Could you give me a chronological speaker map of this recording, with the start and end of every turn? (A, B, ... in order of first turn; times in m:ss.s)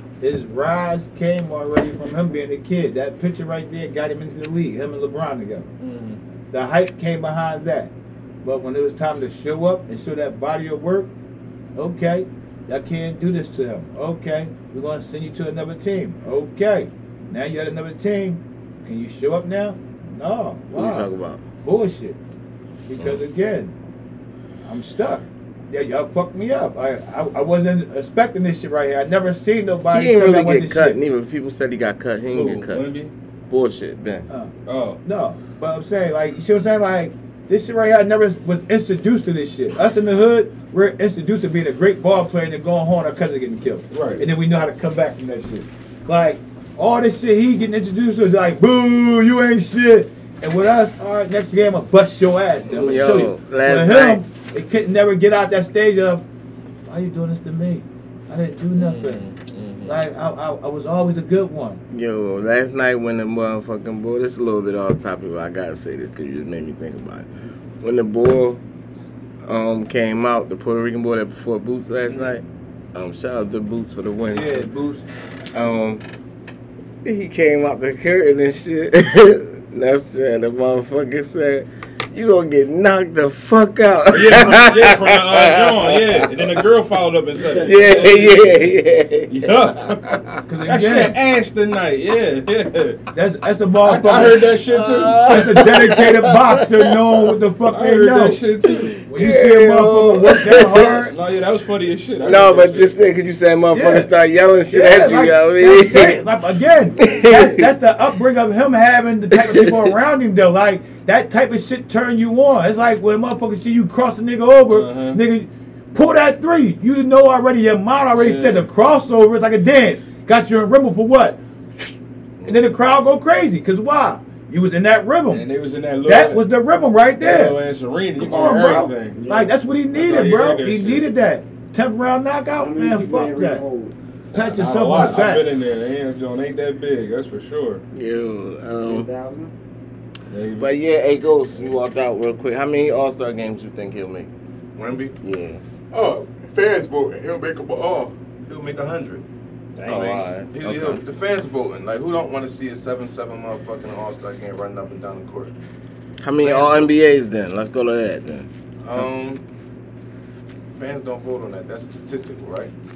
0:00.2-0:05.7 A
0:05.8-0:06.2 B
0:06.5-0:07.9 A
0:08.4-0:11.1 A
0:11.7-0:21.1 A
0:20.7-0:21.4 C
0:21.6-0:22.2 A
0:22.9-0:23.7 A
0:24.6-0:31.0 A
0:29.9-0:32.8 C
0:32.3-0:33.1 B
0:33.5-0:34.2 C
0:34.3-0:34.5 A
0:34.6-0:35.0 B
0:35.0-0:56.2 A
0:43.9-0:44.2 B
0:52.7-0:54.2 C
0:56.9-0:59.2 A
0:58.8-1:00.0 B
0:59.8-1:01.8 A
1:01.9-1:07.3 C
1:07.8-1:08.6 C
1:09.4-1:14.7 C
1:14.3-1:15.0 A
1:15.5-1:16.0 C
1:17.0-1:26.6 C
1:24.1-1:28.7 B
1:27.3-1:28.7 D
1:27.6-1:30.4 C
1:29.3-1:33.0 B
1:30.5-1:31.2 A
1:33.1-1:34.5 A
1:33.8-1:35.4 B
1:34.7-1:37.2 C
1:35.3-1:38.4 A
1:37.7-1:39.0 B
1:38.6-1:41.0 C
1:39.1-1:41.1 A
1:41.0-1:43.0 B
1:42.2-1:46.2 C
1:43.7-1:44.1 A
1:44.7-2:01.9 A
1:47.0-1:47.7 C
1:49.3-1:49.9 C
1:54.7-1:55.2 B
1:58.2-1:58.6 B
2:02.4-2:05.4 A
2:05.3-2:06.4 B
2:06.0-2:07.6 A
2:07.2-2:09.2 B
2:08.2-2:13.6 A
2:09.1-2:09.5 D
2:09.9-2:11.0 B
2:12.6-2:14.0 D
2:14.3-2:15.5 A
2:14.5-2:17.8 B
2:17.9-2:19.1 C
2:18.8-2:19.5 D
2:20.3-2:20.7 B
2:20.6-2:24.3 C
2:24.8-2:25.1 E
2:25.2-2:25.6 C
2:25.9-2:29.2 E
2:29.8-2:30.2 B
2:29.8-2:31.0 C
2:29.9-2:35.5 E
2:36.2-2:38.5 C
2:36.4-2:37.0 E
2:38.8-2:39.4 E
2:40.7-2:42.7 E